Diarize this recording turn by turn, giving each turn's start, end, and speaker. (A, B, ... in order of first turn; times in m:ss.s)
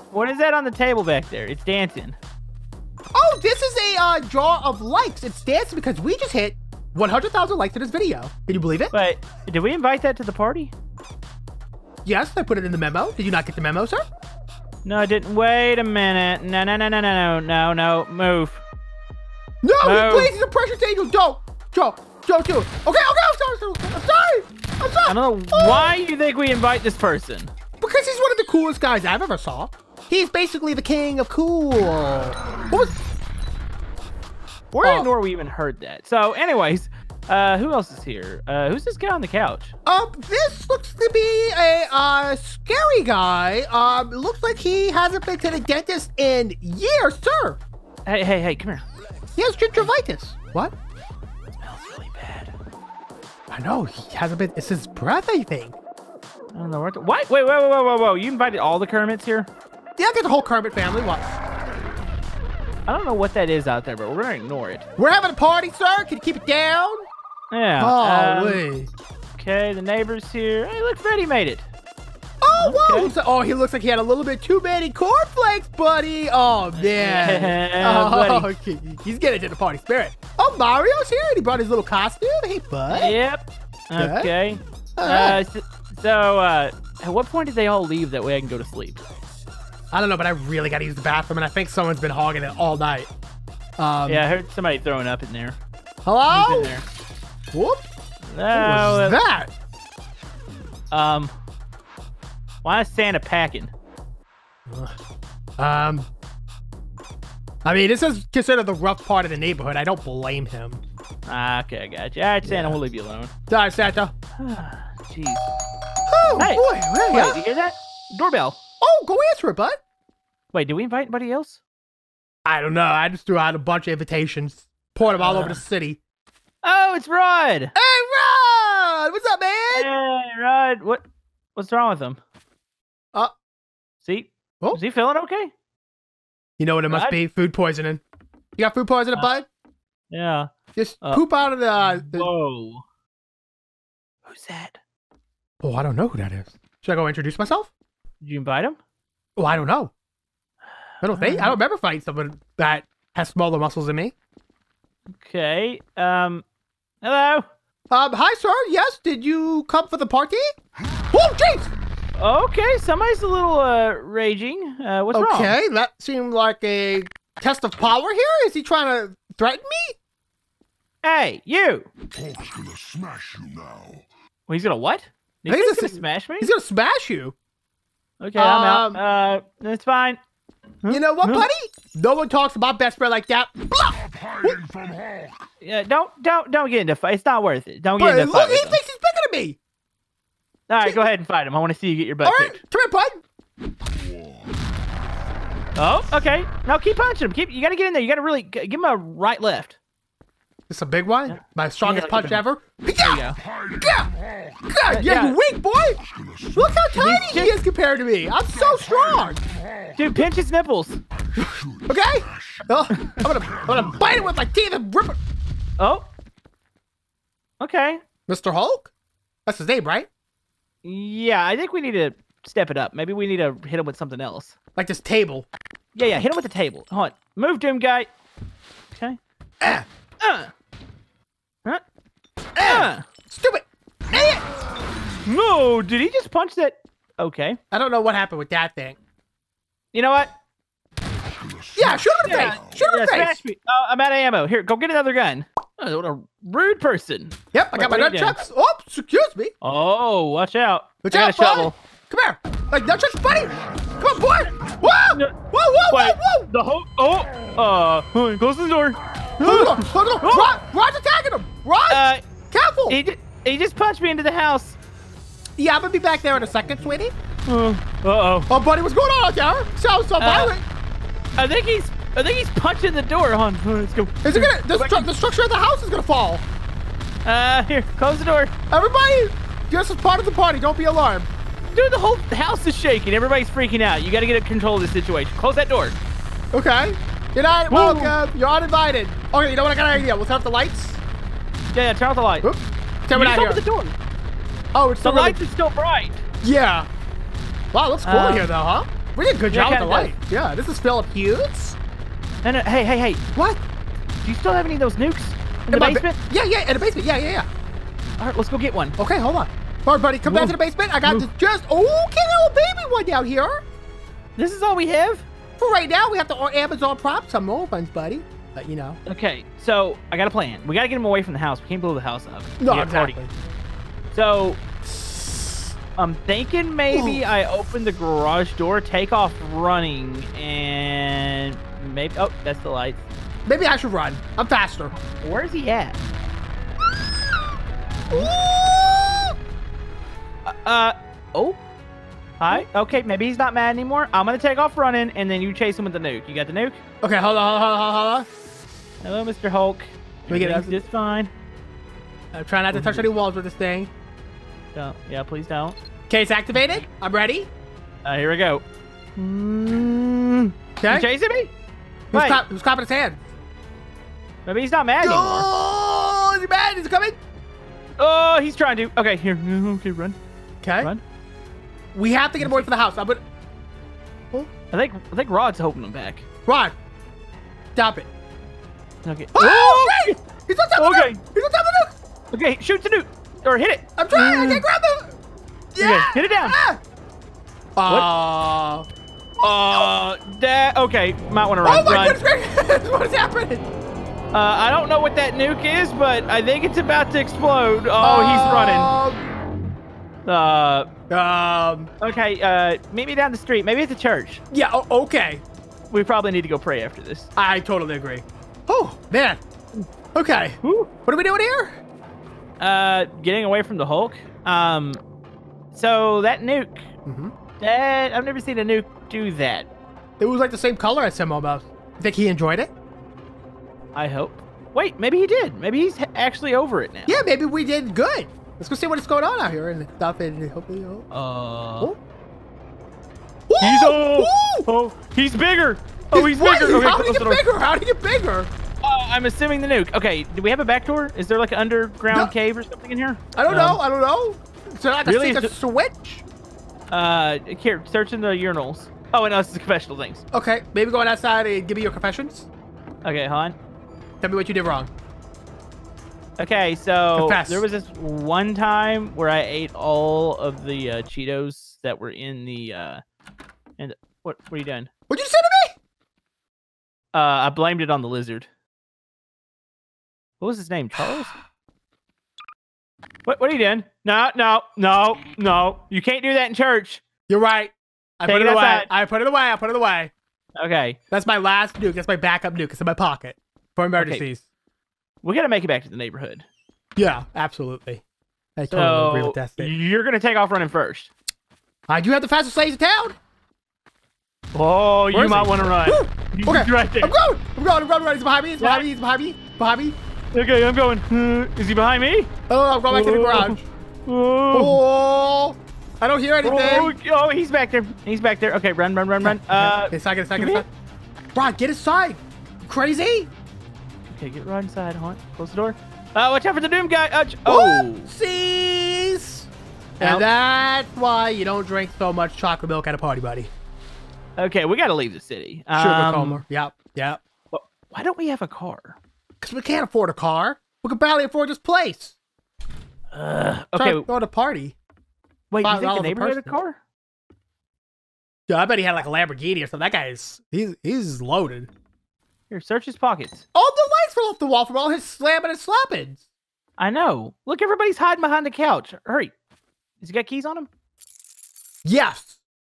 0:00.1-0:02.2 A
0:03.1-0:08.9 B
0:08.9-0:10.7 A
0:12.0-0:14.0 B
0:14.8-0:18.6 A
0:19.6-0:26.0 B
0:19.8-0:20.3 A
0:25.1-0:27.5 A
0:27.8-0:33.0 B
0:34.7-0:39.7 A
0:34.8-0:35.1 B
0:39.9-0:47.6 B
0:48.1-0:48.8 A
0:49.4-0:50.7 B
0:51.6-0:52.5 A
0:53.5-0:55.8 B
0:56.5-0:59.5 A
1:00.0-1:01.4 B
1:02.9-1:04.8 A
1:05.0-1:07.1 B
1:07.5-1:08.6 A
1:07.8-1:08.9 B
1:09.4-1:11.7 A
1:12.4-1:23.2 B
1:12.6-1:13.1 A
1:16.8-1:18.5 A
1:22.9-1:29.0 A
1:24.0-1:24.3 B
1:25.0-1:25.4 B
1:29.9-1:33.1 B
1:33.8-1:34.3 B
1:34.1-1:35.6 A
1:36.0-1:36.8 B
1:36.3-1:36.8 A
1:37.5-1:37.9 B
1:38.3-1:39.2 A
1:38.5-1:39.5 B
1:40.9-1:41.3 A
1:42.6-1:43.7 A
1:44.7-1:44.9 B
1:45.6-1:46.1 B
1:47.6-1:50.8 B
1:51.3-1:53.3 A
1:52.4-1:52.8 B
1:53.5-1:54.1 B
1:54.4-1:55.5 A
1:56.1-1:57.4 B
1:56.3-1:58.6 A
1:58.8-1:59.8 B
2:00.5-2:01.6 A
2:02.5-2:06.0 B
2:05.2-2:05.6 A
2:06.6-2:07.7 A
2:07.8-2:09.9 B
2:09.7-2:11.0 A
2:11.6-2:12.2 A
2:14.0-2:15.5 A
2:16.6-2:18.0 B
2:16.9-2:17.2 A
2:18.6-2:19.5 B
2:20.1-2:21.2 A
2:20.8-2:22.3 B
2:21.8-2:22.8 A
2:24.2-2:24.8 A
2:25.6-2:27.7 B
2:28.2-2:28.8 A
2:29.4-2:29.9 B
2:31.0-2:34.2 B
2:31.1-2:31.6 A
2:35.2-2:36.4 A
2:37.0-2:37.5 A
2:37.9-2:40.5 B
2:41.1-2:41.7 B
2:42.2-2:45.6 A
2:45.1-2:50.0 B
2:51.0-2:51.9 A
2:52.2-2:53.9 C
2:54.5-2:56.5 A
2:55.5-2:57.4 B
2:58.2-3:00.2 A
2:58.4-2:59.0 B
3:00.8-3:01.5 A
3:00.9-3:04.6 B
3:04.7-3:05.2 C
3:05.6-3:08.8 A
3:08.0-3:09.6 B
3:10.7-3:12.6 A
3:12.2-3:13.2 B
3:15.8-3:19.8 A
3:20.7-3:29.4 B
3:21.3-3:22.4 A
3:23.0-3:23.4 A
3:24.9-3:25.4 A
3:27.0-3:27.5 A
3:29.9-3:31.0 A
3:31.4-3:35.2 B
3:35.8-3:36.1 A
3:37.6-3:38.0 A
3:38.3-3:38.9 B
3:39.5-3:40.1 B
3:40.8-3:44.6 A
3:44.8-3:45.5 B
3:46.0-3:48.1 A
3:48.9-3:49.2 A
3:49.6-3:49.9 B
3:50.2-3:50.5 A
3:52.6-3:54.4 B
3:52.6-3:53.1 A
3:55.2-3:57.6 A
3:57.7-3:59.0 B
3:59.9-4:00.3 A
4:01.8-4:03.4 B
4:02.2-4:08.4 A
4:07.5-4:09.5 B
4:09.6-4:11.8 A
4:11.0-4:16.5 B
4:15.1-4:15.4 A
4:15.9-4:20.6 A
4:19.4-4:23.0 B
4:21.9-4:22.2 A
4:22.9-4:24.8 A
4:25.6-4:27.1 B
4:27.5-4:28.5 A
4:28.5-4:30.6 B
4:30.2-4:30.5 A
4:31.4-4:35.1 A
4:34.2-4:36.4 B
4:37.2-4:38.5 A
4:38.7-4:41.3 B
4:41.7-4:46.0 A
4:46.5-4:51.0 B
4:47.7-4:48.2 A
4:51.7-4:52.5 A
4:52.4-4:53.6 B
4:53.1-4:54.0 A
4:54.7-4:55.4 B
4:55.0-4:56.2 A
4:56.4-4:56.9 B
4:57.7-5:01.8 B
4:58.0-4:58.5 A
4:59.5-5:00.1 A
5:02.4-5:03.2 A
5:04.2-5:06.2 A
5:05.7-5:07.5 B
5:08.2-5:09.0 A
5:09.0-5:13.6 B
5:10.2-5:11.3 A
5:14.4-5:15.3 A
5:15.6-5:19.0 B
5:19.1-5:23.2 A
5:22.6-5:23.3 B
5:24.1-5:24.6 A
5:26.0-5:33.0 A
5:26.9-5:27.2 B
5:33.5-5:34.9 B
5:35.0-5:36.0 A
5:38.1-5:39.3 B
5:40.4-5:41.6 A
5:42.4-5:46.8 A
5:47.0-5:48.3 B
5:49.0-5:51.3 A
5:50.3-5:50.8 B
5:52.3-5:53.9 B
5:52.7-5:53.1 A
5:54.8-5:55.8 A
5:56.1-5:57.5 B
5:58.0-5:58.6 A
5:59.2-6:01.5 A
6:00.8-6:01.1 B
6:02.1-6:03.2 B
6:02.1-6:02.4 A
6:04.4-6:05.5 A
6:05.0-6:07.2 B
6:08.0-6:10.2 A
6:10.6-6:10.9 B
6:11.9-6:13.2 B
6:12.4-6:12.7 A
6:14.7-6:16.2 A
6:16.5-6:16.7 B
6:17.8-6:18.1 B
6:19.0-6:20.2 A
6:19.3-6:21.9 B
6:20.8-6:21.2 A
6:22.3-6:24.6 A
6:24.0-6:25.2 B
6:25.8-6:26.8 B
6:25.8-6:26.6 A
6:27.8-6:28.9 B
6:29.4-6:32.2 A
6:31.6-6:33.7 B
6:34.3-6:38.9 A
6:38.0-6:39.3 B
6:40.3-6:40.9 A
6:41.1-6:41.9 B
6:42.0-6:44.4 A
6:44.5-6:45.4 B
6:45.9-6:47.3 A
6:47.4-6:49.4 B
6:50.1-6:51.8 B
6:50.6-6:50.9 A
6:52.6-6:55.0 A
6:55.7-6:56.9 A
6:57.1-6:57.3 B
6:57.6-6:59.7 A
7:00.2-7:02.7 B
7:04.0-7:07.3 A
7:07.1-7:11.1 B
7:11.1-7:11.9 A
7:13.5-7:14.7 B
7:13.6-7:17.4 A
7:16.1-7:18.5 B
7:18.8-7:23.8 A
7:23.4-7:26.2 B
7:25.1-7:25.5 A
7:26.9-7:30.2 A
7:30.3-7:32.5 B
7:33.0-7:33.6 A
7:34.2-7:34.9 B
7:36.4-7:43.0 A
7:37.2-7:37.7 B
7:43.8-7:44.9 A
7:45.1-7:45.8 B
7:47.1-7:48.5 A
7:50.4-7:51.3 A
7:53.2-7:57.0 A
7:57.3-8:00.1 B
7:58.3-7:58.9 A
8:00.6-8:01.0 A
8:01.1-8:04.4 B
8:04.0-8:04.2 A
8:05.2-8:06.5 A
8:07.0-8:08.0 B
8:08.6-8:09.7 B
8:08.7-8:11.1 A
8:11.9-8:13.2 B
8:14.5-8:17.2 A
8:15.1-8:20.0 B
8:18.6-8:18.9 A
8:20.3-8:22.3 A
8:22.5-8:23.6 B
8:22.9-8:24.8 A
8:24.5-8:26.9 B
8:26.4-8:30.6 A
8:29.2-8:30.7 B
8:31.4-8:33.3 B
8:34.1-8:38.1 A
8:37.5-8:39.5 B
8:40.0-8:40.2 A
8:40.0-8:43.5 B
8:44.4-8:46.4 A
8:45.7-8:47.2 B
8:47.5-8:49.0 A
8:49.4-8:52.2 B
8:53.1-8:54.1 A
8:53.8-8:54.8 B
8:55.5-8:56.8 A
8:55.6-8:56.5 B
8:58.5-9:01.7 B
9:02.5-9:03.4 A
9:03.5-9:06.2 B
9:06.8-9:09.3 A
9:10.0-9:10.7 A
9:11.8-9:12.4 B